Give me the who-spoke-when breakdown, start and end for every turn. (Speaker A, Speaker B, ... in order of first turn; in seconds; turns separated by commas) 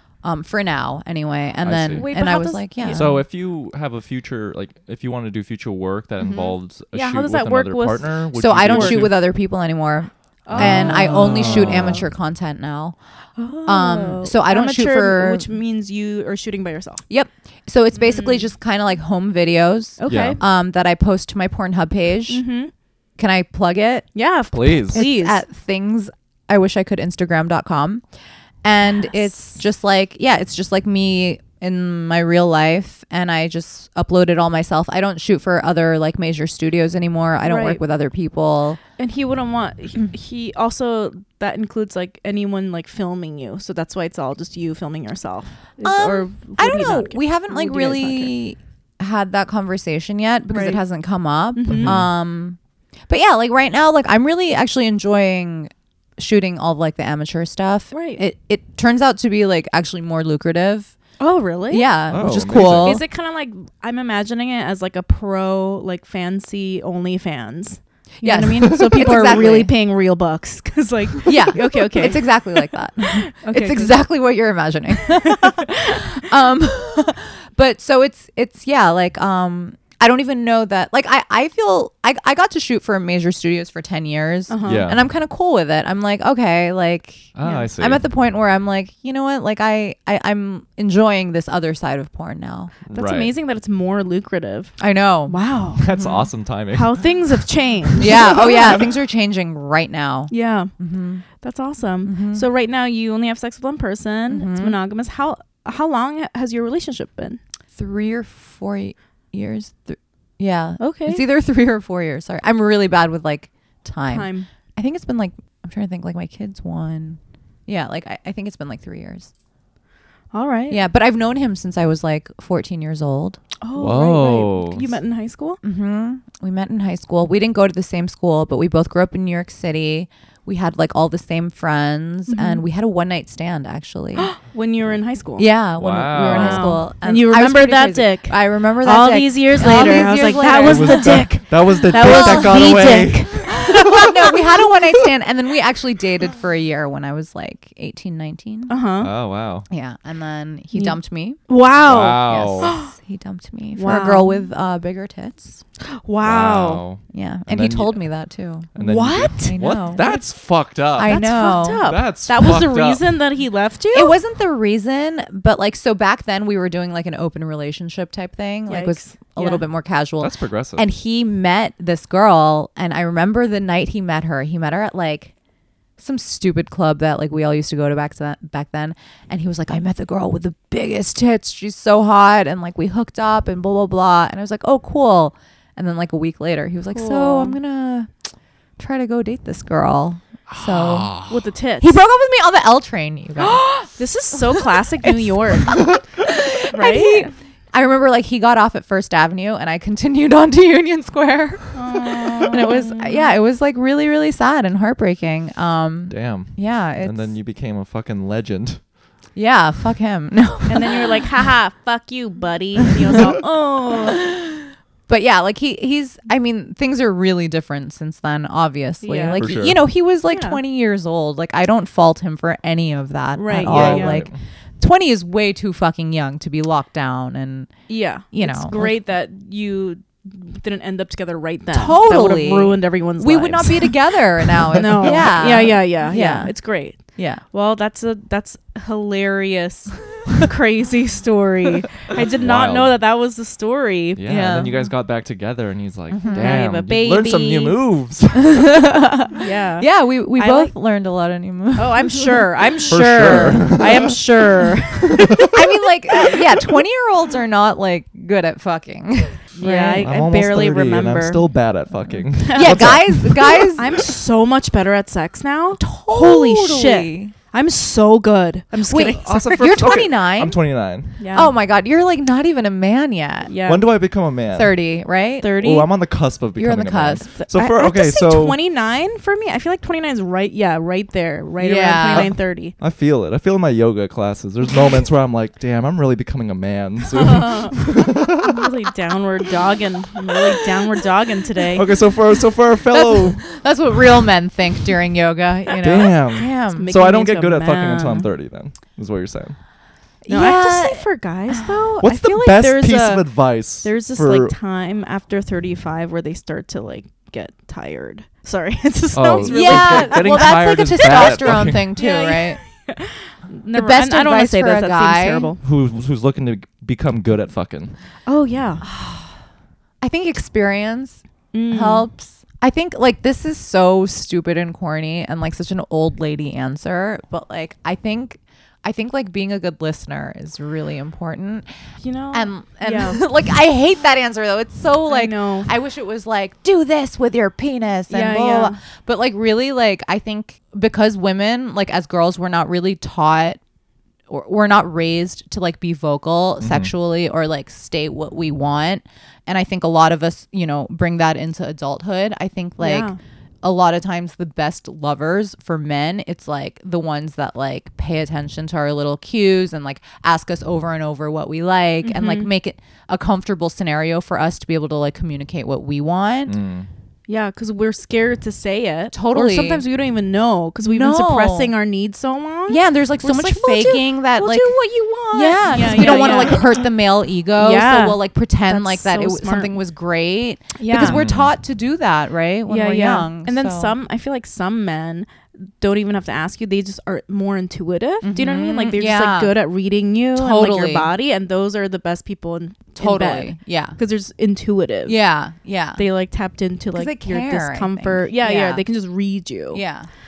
Speaker A: 0.2-3.2, Speaker B: 1.6-2.1, Speaker C: 1.9-3.1, Speaker B: 2.9-9.2, Speaker C: 6.2-9.0, Speaker A: 8.3-12.9, Speaker C: 10.4-12.0, Speaker B: 10.5-12.0, Speaker C: 13.4-17.0, Speaker A: 13.7-15.5, Speaker A: 17.1-22.4, Speaker C: 17.9-18.5, Speaker C: 20.0-20.4, Speaker B: 20.1-20.4, Speaker C: 22.3-22.7, Speaker A: 23.2-24.1, Speaker C: 24.1-25.4, Speaker B: 24.5-25.0, Speaker A: 24.8-28.0, Speaker A: 28.6-38.8, Speaker C: 37.4-37.8, Speaker C: 39.0-48.3, Speaker A: 45.8-52.6, Speaker C: 50.5-50.8, Speaker C: 51.5-52.0, Speaker B: 51.8-52.1, Speaker A: 53.1-60.9, Speaker C: 57.9-58.2, Speaker C: 61.2-61.9, Speaker A: 61.7-63.0, Speaker B: 62.1-63.0, Speaker C: 62.6-74.0, Speaker A: 68.2-69.7, Speaker A: 71.2-92.7, Speaker C: 75.1-76.1, Speaker C: 84.5-84.9, Speaker B: 84.6-85.0, Speaker B: 87.3-88.0, Speaker C: 87.4-87.7, Speaker B: 92.8-93.3, Speaker C: 92.9-95.8, Speaker A: 94.8-95.3, Speaker B: 95.8-97.3, Speaker A: 95.9-96.2, Speaker C: 96.7-98.8, Speaker A: 98.0-101.2, Speaker B: 98.0-98.9, Speaker C: 100.3-100.7, Speaker C: 101.4-107.4, Speaker A: 102.0-102.5, Speaker A: 104.3-104.8, Speaker A: 107.8-119.3, Speaker C: 110.8-111.2, Speaker C: 114.1-114.5, Speaker C: 120.3-120.8, Speaker A: 120.7-123.4, Speaker C: 123.6-125.6, Speaker B: 123.7-124.9, Speaker A: 125.6-134.4, Speaker C: 132.3-132.6, Speaker C: 134.2-135.5, Speaker A: 135.4-141.3, Speaker B: 135.8-136.8, Speaker C: 136.2-144.1, Speaker B: 140.6-144.3, Speaker A: 141.9-148.7, Speaker C: 148.7-149.1, Speaker B: 149.0-149.7, Speaker A: 149.7-151.4, Speaker C: 150.7-152.9, Speaker B: 151.8-152.7, Speaker A: 152.2-155.6, Speaker C: 153.7-154.5, Speaker C: 155.8-156.8, Speaker B: 156.2-158.1, Speaker A: 157.1-158.7, Speaker B: 158.7-163.0, Speaker C: 158.8-160.3, Speaker A: 159.4-160.1, Speaker A: 160.9-161.8, Speaker C: 161.0-164.1, Speaker A: 163.9-175.3, Speaker C: 168.7-169.6, Speaker B: 170.2-170.9, Speaker A: 176.0-188.1, Speaker C: 186.9-187.6, Speaker A: 188.8-191.2, Speaker B: 190.5-191.4, Speaker C: 191.3-191.9, Speaker A: 191.8-193.9, Speaker C: 193.4-196.0, Speaker A: 194.6-207.3, Speaker C: 196.7-197.3, Speaker C: 201.7-203.2, Speaker B: 206.1-208.8, Speaker A: 209.3-211.1, Speaker C: 210.7-214.2, Speaker A: 214.2-228.9, Speaker C: 219.0-219.4, Speaker B: 219.4-219.8, Speaker C: 220.3-220.6, Speaker C: 223.3-224.2, Speaker B: 223.6-224.4, Speaker C: 227.9-234.2, Speaker A: 231.7-237.4, Speaker C: 234.7-244.2, Speaker B: 242.4-243.0, Speaker B: 244.2-248.8, Speaker A: 244.2-244.8, Speaker A: 246.1-246.6, Speaker C: 246.3-247.8, Speaker A: 248.3-252.4, Speaker C: 249.3-250.7, Speaker C: 251.7-255.6, Speaker B: 252.9-254.2, Speaker A: 253.2-253.6, Speaker B: 255.2-255.5, Speaker A: 255.5-260.1, Speaker C: 259.6-261.5, Speaker B: 260.0-263.6, Speaker C: 262.4-269.8, Speaker A: 262.5-264.0, Speaker A: 265.8-267.3, Speaker A: 268.9-270.6, Speaker B: 269.1-271.2, Speaker C: 271.2-271.5, Speaker A: 271.3-273.5, Speaker C: 273.5-273.9, Speaker B: 273.6-274.7, Speaker A: 274.5-275.6, Speaker C: 275.4-275.9, Speaker B: 275.6-278.6, Speaker A: 276.6-277.3, Speaker C: 277.4-282.7, Speaker A: 281.6-282.3, Speaker B: 282.1-288.7, Speaker C: 287.1-287.8, Speaker C: 288.4-291.9, Speaker B: 291.7-293.6, Speaker A: 292.9-296.9, Speaker B: 295.8-299.6, Speaker C: 296.7-298.3, Speaker A: 300.2-301.6, Speaker C: 300.3-315.6, Speaker B: 302.0-304.5, Speaker B: 309.1-311.9, Speaker A: 309.4-312.6, Speaker A: 313.7-315.5, Speaker B: 315.6-317.9, Speaker C: 318.2-318.9, Speaker A: 318.8-319.3, Speaker A: 320.0-331.7, Speaker C: 321.5-322.1, Speaker C: 332.0-333.2, Speaker A: 332.3-343.6, Speaker C: 335.1-335.7, Speaker C: 338.1-338.8, Speaker A: 344.3-366.6, Speaker B: 346.6-346.9, Speaker C: 352.8-353.2, Speaker C: 362.0-362.5, Speaker B: 366.5-366.9, Speaker C: 367.3-376.8, Speaker A: 369.1-369.8, Speaker A: 370.8-371.7, Speaker A: 372.7-374.8, Speaker A: 375.3-383.9, Speaker C: 377.6-379.7, Speaker C: 380.8-381.2, Speaker B: 380.9-381.5, Speaker C: 382.7-395.2, Speaker A: 388.2-389.5, Speaker A: 390.3-391.1, Speaker A: 393.0-394.0, Speaker A: 395.1-396.0, Speaker C: 395.9-399.8, Speaker A: 396.9-398.8, Speaker A: 399.7-400.1